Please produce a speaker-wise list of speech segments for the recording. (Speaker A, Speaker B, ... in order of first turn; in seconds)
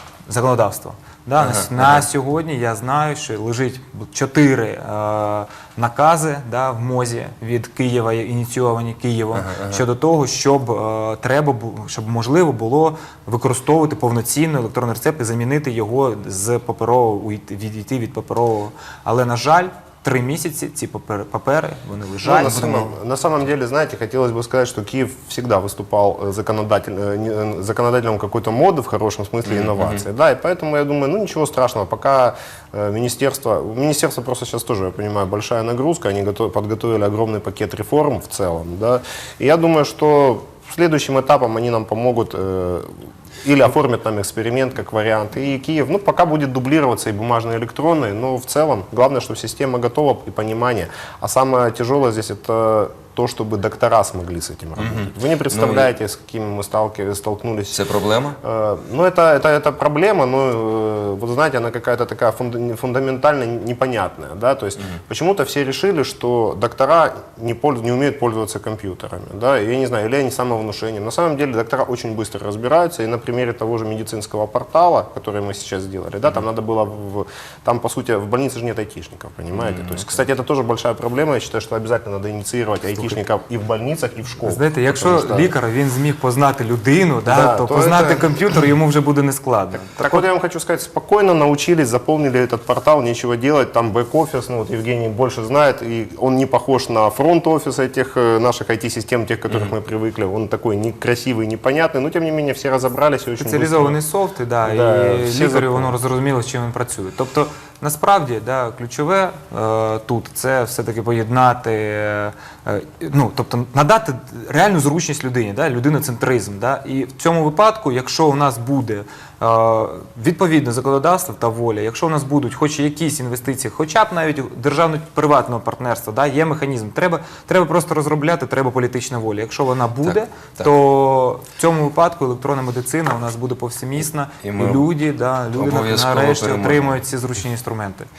Speaker A: 0.3-23.0, 83.0-83.2, 84.4-90.2, 103.4-138.1
Speaker B: 1.4-2.0, 9.3-9.8, 29.4-30.0, 54.8-55.9, 57.7-58.4, 79.5-80.0, 130.0-130.7, 134.4-134.9, 135.6-137.0
Speaker C: 22.2-42.9, 43.4-57.8, 58.4-85.5, 87.3-88.4, 89.9-104.0, 104.6-106.0